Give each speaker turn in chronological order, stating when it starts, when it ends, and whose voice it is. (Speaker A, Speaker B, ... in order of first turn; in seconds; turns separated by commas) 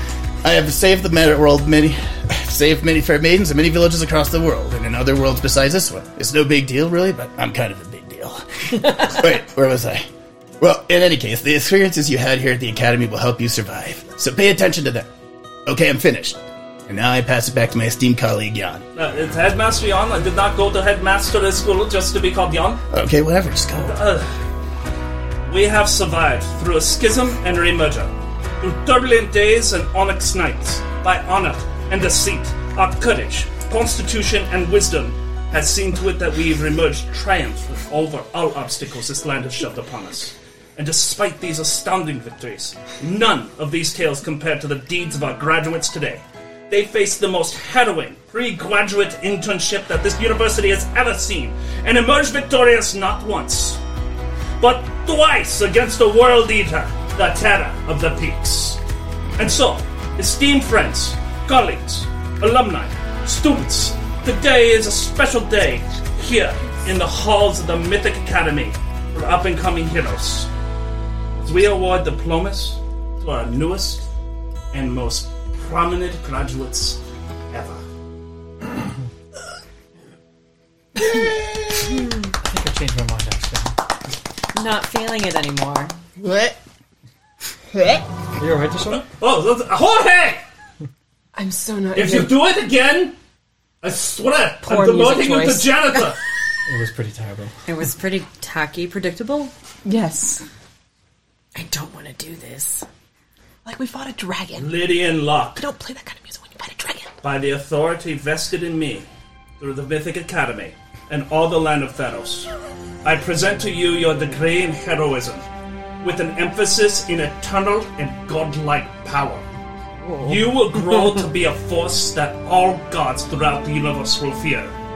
Speaker A: 0.4-10.1, Speaker A: 10.6-15.1, Speaker A: 15.7-18.8, Speaker B: 18.9-22.8, Speaker A: 22.9-24.0, Speaker B: 23.8-24.4, Speaker B: 25.4-53.8, Speaker B: 54.6-58.8, Speaker B: 59.4-70.5, Speaker B: 71.4-74.1, Speaker B: 74.7-77.0, Speaker B: 77.5-77.8, Speaker C: 82.4-83.7, Speaker D: 84.5-85.9, Speaker E: 86.2-86.5, Speaker C: 88.4-89.1, Speaker B: 88.9-90.4, Speaker E: 91.3-92.3, Speaker B: 91.9-93.2, Speaker B: 93.8-96.2, Speaker E: 94.7-95.8, Speaker C: 96.7-97.5, Speaker D: 97.7-99.5, Speaker E: 99.8-100.5, Speaker D: 101.5-102.9, Speaker E: 103.7-104.8, Speaker B: 104.6-105.6, Speaker E: 105.6-107.1, Speaker B: 107.2-109.1, Speaker B: 109.6-112.5, Speaker B: 113.0-115.5, Speaker B: 116.0-119.5, Speaker D: 120.0-121.2, Speaker B: 120.2-124.8